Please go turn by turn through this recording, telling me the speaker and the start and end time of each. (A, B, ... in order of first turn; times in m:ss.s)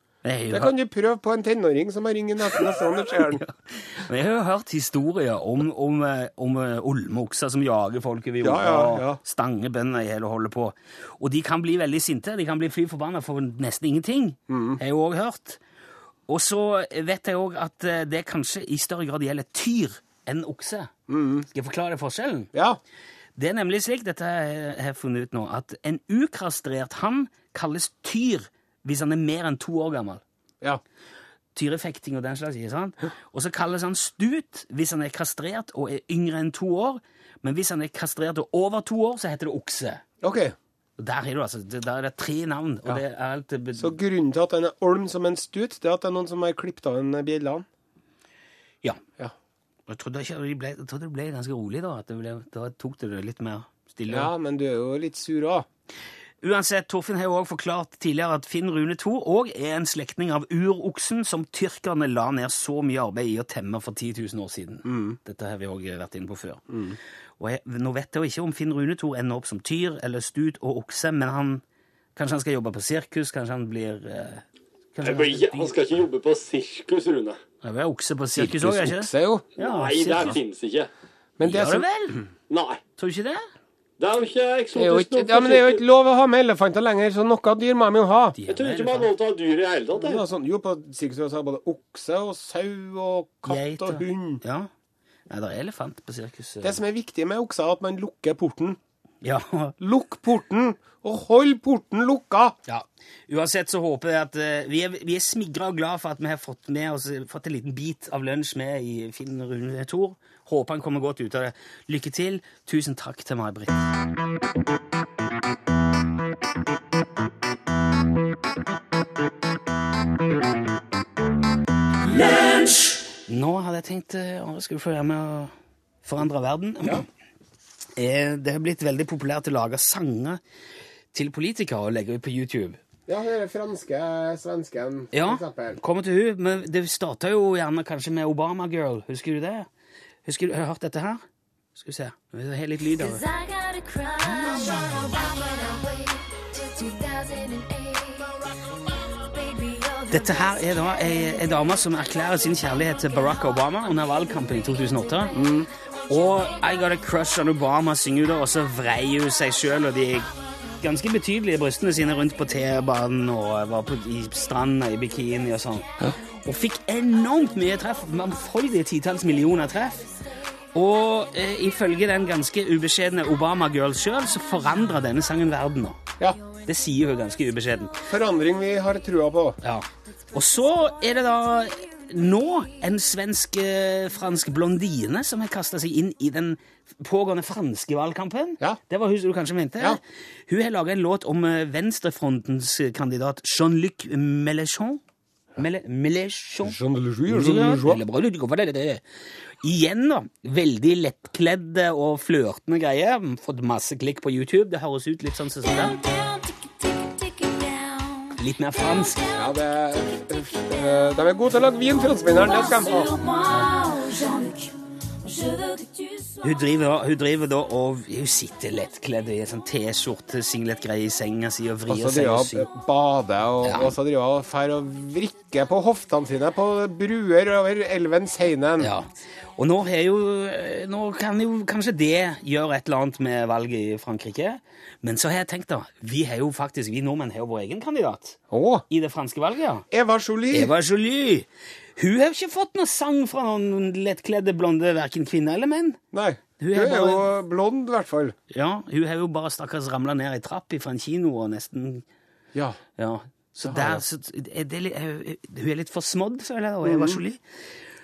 0:00.2-0:00.7 A
0:00.5-0:03.4 B
0:03.4-0:15.6 A
0:08.4-0:09.2 B
0:14.5-0:14.8 B
0:16.3-0:20.9 A
0:21.1-0:21.5 B
0:21.5-0:22.5 A
0:22.5-0:22.8 B
0:23.4-0:30.2 A
0:31.5-0:40.0 A
0:40.2-0:40.5 B
0:41.0-0:44.0 A
0:43.8-0:47.6 B
0:49.9-0:54.3 A
0:54.1-0:55.7 B
0:56.4-1:06.6 A
1:04.8-1:05.2 B
1:06.7-1:07.0 B
1:07.4-1:11.6 A
1:12.2-1:14.4 A
1:14.9-1:15.9 A
1:15.0-1:17.4 C
1:17.6-1:20.4 A
1:18.4-1:19.5 B
1:19.6-1:20.9 C
1:21.4-1:21.8 B
1:21.4-1:22.2 A
1:22.5-1:22.8 C
1:23.0-1:23.4 A
1:24.0-1:25.8 C
1:24.7-1:28.4 B
1:28.4-1:29.2 A
1:28.5-1:30.2 C
1:29.9-1:34.4 B
1:33.5-1:34.7 A
1:35.3-1:36.8 A
1:36.6-1:38.8 B
1:39.2-1:39.8 A
1:39.8-1:42.6 B
1:42.7-1:53.9 A
2:02.6-2:07.0 A
2:08.0-2:10.4 A
2:11.1-2:12.8 A
2:13.1-2:15.8 B
2:15.1-2:19.7 A
2:20.2-2:21.2 A
2:21.8-2:23.2 A
2:23.0-2:37.7 D
2:30.1-2:35.4 A
2:35.3-2:35.7 B
2:36.1-2:40.3 A
2:39.3-2:39.9 D
2:40.8-2:50.0 A
2:41.7-2:42.9 D
2:44.7-2:50.3 D
2:50.7-2:56.0 A
2:50.9-2:51.8 D
2:56.6-2:58.0 A
2:58.1-2:59.6 B
2:59.6-3:15.0 A
3:00.3-3:02.0 D
3:15.6-3:16.8 A
3:16.6-3:18.0 B
3:17.3-3:19.0 A
3:19.6-3:25.9 A
3:25.6-3:31.2 D
3:28.4-3:29.2 A
3:29.3-3:33.1 B
3:32.0-3:36.7 D
3:36.4-3:42.7 A
3:41.9-3:48.9 B
3:43.6-3:43.9 A
3:48.8-3:58.4 A
3:58.5-3:58.8 B
3:58.9-3:59.8 A
3:59.9-4:00.7 B
4:00.5-4:06.0 A
4:06.1-4:08.3 B
4:06.6-4:07.3 A
4:08.5-4:12.0 A
4:13.0-4:17.4 A
4:13.6-4:14.0 B
4:16.8-4:17.2 B